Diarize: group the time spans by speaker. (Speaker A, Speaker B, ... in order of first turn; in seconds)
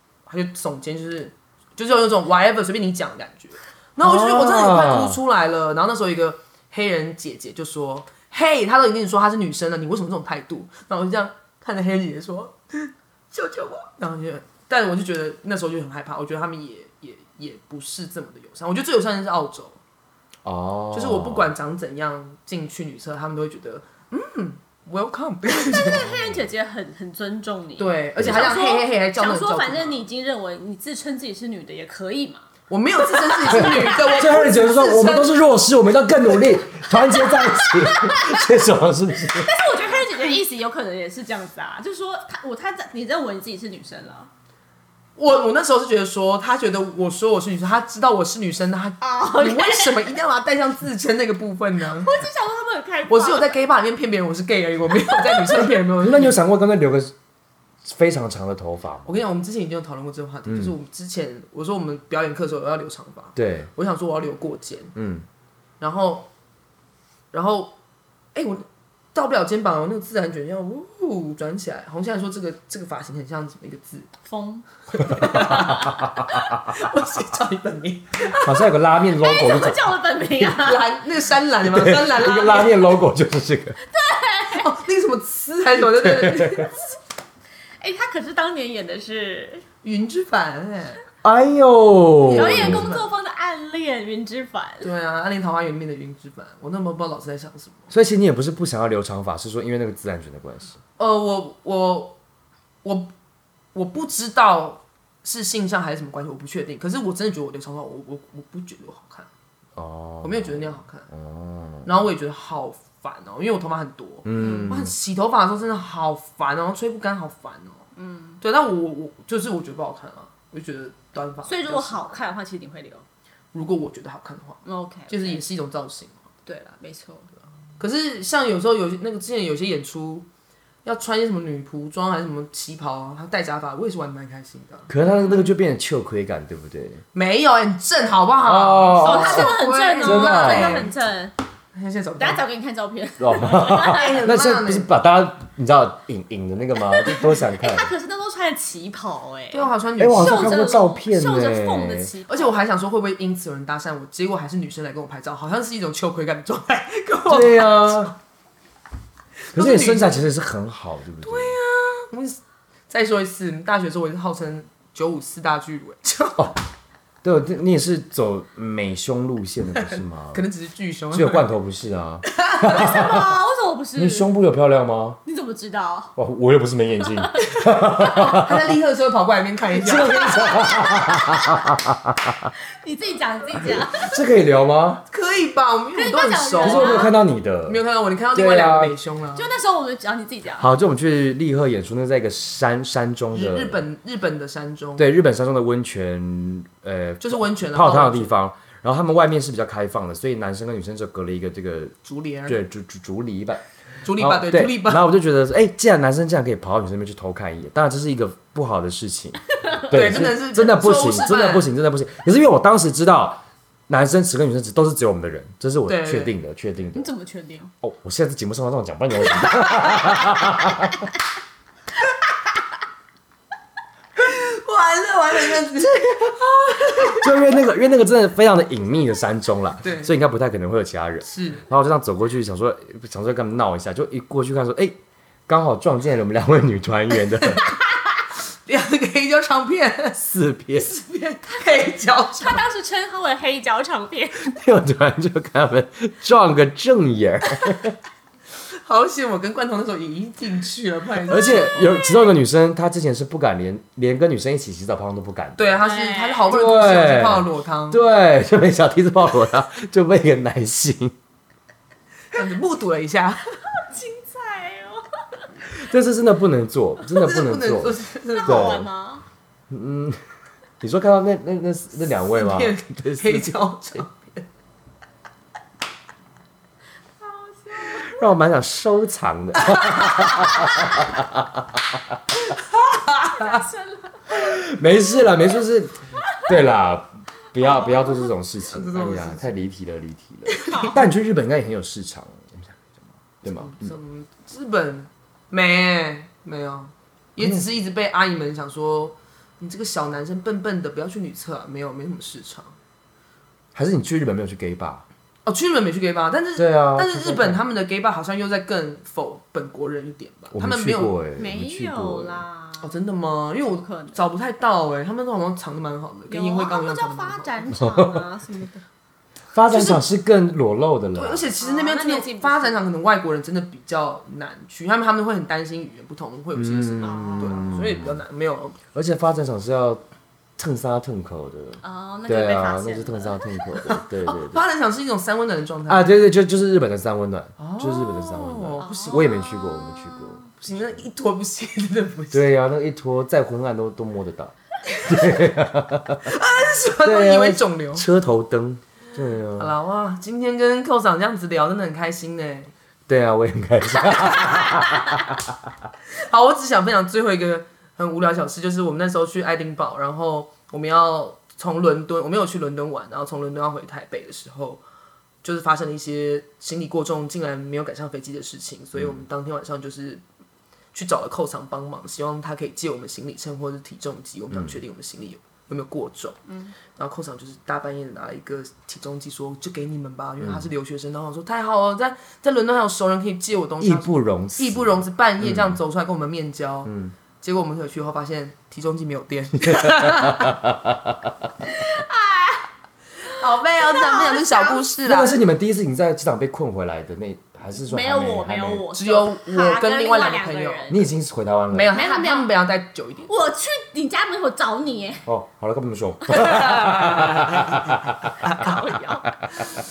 Speaker A: 0.2-19.8, 20.9-26.1, 27.8-30.0, 32.7-35.4, 45.2-52.2, 53.1-56.4, 59.0-64.9, 65.8-66.3, 67.3-67.8, 68.3-74.1, 74.9-78.5, 80.4-82.8, 84.5-86.8, 89.8-91.0, 92.2-93.1, 94.8-97.8, 101.0-102.2, 102.8-103.1, 103.7-109.3, 110.2-111.1, 111.8-117.8, 118.4-122.2, 123.5-126.2, 127.8-130.3, 130.8-135.5, 137.1-140.9, 141.7-142.4, 143.8-144.9, 149.5-150.8, 152.3-158.1, 159.5-160.3, 161.2-166.5, 169.8-171.5, 172.3-173.0, 177.5-180.3, 185.1-187.1, 187.6-189.5, 193.3-195.1, 197.2-198.3, 202.0-202.6, 204.0-205.0, 209.9-211.7, 215.9-216.3, 219.5-219.9, 224.2-227.4, 229.8-230.1, 231.2-231.6, 238.7-240.2, 240.8-242.6, 248.8-251.9, 255.6-258.0, 262.3-263.5, 267.1-268.8, 272.1-274.4, 282.4-283.6, 288.7-289.4, 290.5-291.0, 293.5-302.8, 305.4-311.2, 312.8-317.8, 319.7-320.0, 321.1-328.8, 333.8-336.1, 337.6-339.4, 340.6-342.5, 344.9-345.4, 346.2-348.1, 349.6-352.7, 356.1-364.8, 365.4-370.2, 370.9-376.4, 376.9-390.5, 393.3-395.4, 398.9-400.9, 401.7-403.3, 406.7-407.7
Speaker B: 4.0-5.2, 20.4-21.5, 26.1-26.4, 28.2-28.4, 33.5-39.5, 55.6-57.1, 57.8-59.1, 60.5-60.7, 63.4-63.7, 64.9-65.2, 75.1-76.2, 78.4-79.9, 81.6-83.8, 85.8-86.7, 91.2-92.9, 97.9-100.8, 109.8-111.9, 114.2-114.9, 134.9-137.0, 138.4-140.9, 143.2-147.9, 150.0-152.1, 157.3-158.1, 159.5-161.6, 167.2-170.4, 171.1-173.3, 173.9-175.2, 176.2-178.7, 179.7-182.5, 183.6-185.0, 186.6-187.8, 188.3-188.9, 190.6-193.8, 195.0-201.9, 202.5-203.6, 204.2-217.1, 217.8-221.1, 227.1-237.6, 240.2-240.9, 244.4-247.9, 251.3-255.8, 256.5-261.1, 265.8-268.9, 269.7-270.2, 270.8-273.7, 277.8-282.2, 284.3-293.9, 297.4-297.6, 303.7-305.0, 306.6-307.6, 310.5-312.4, 317.7-318.2, 319.5-321.5, 326.5-328.2, 328.9-330.0, 330.6-334.6, 335.9-340.8, 342.3-346.3, 347.0-349.7, 353.1-355.5, 380.4-380.7, 383.8-385.8, 386.9-387.1, 389.8-390.5, 395.0-398.9, 400.9-401.9, 405.2-408.7
Speaker C: 25.7-32.4, 33.0-34.4, 37.2-38.6, 39.3-44.3, 49.0-50.1, 51.8-53.5, 55.0-55.4, 74.2-76.2, 79.1-81.0, 83.9-84.7, 87.8-89.7, 92.3-94.9, 114.4-114.7, 118.0-118.4, 121.5-123.0, 124.6-125.4, 126.5-127.3, 138.9-141.3, 142.2-144.2, 146.9-152.6, 172.7-174.3, 175.2-176.2, 177.0-177.5, 180.0-181.6, 182.8-184.2, 185.9-187.2, 189.3-190.7, 216.9-217.7, 242.4-244.5, 251.6-252.3, 255.8-256.5, 263.8-265.5, 268.3-269.2, 277.2-278.2, 283.2-284.5, 287.6-288.3, 290.7-291.0, 311.4-313.0, 313.6-314.3, 316.3-318.7, 321.6-322.8, 327.0-327.7, 331.8-333.7, 338.8-340.5, 376.5-376.7, 391.7-392.7, 393.8-394.8, 397.8-401.1, 401.9-402.5, 403.3-405.2, 406.3-406.8, 408.4-409.4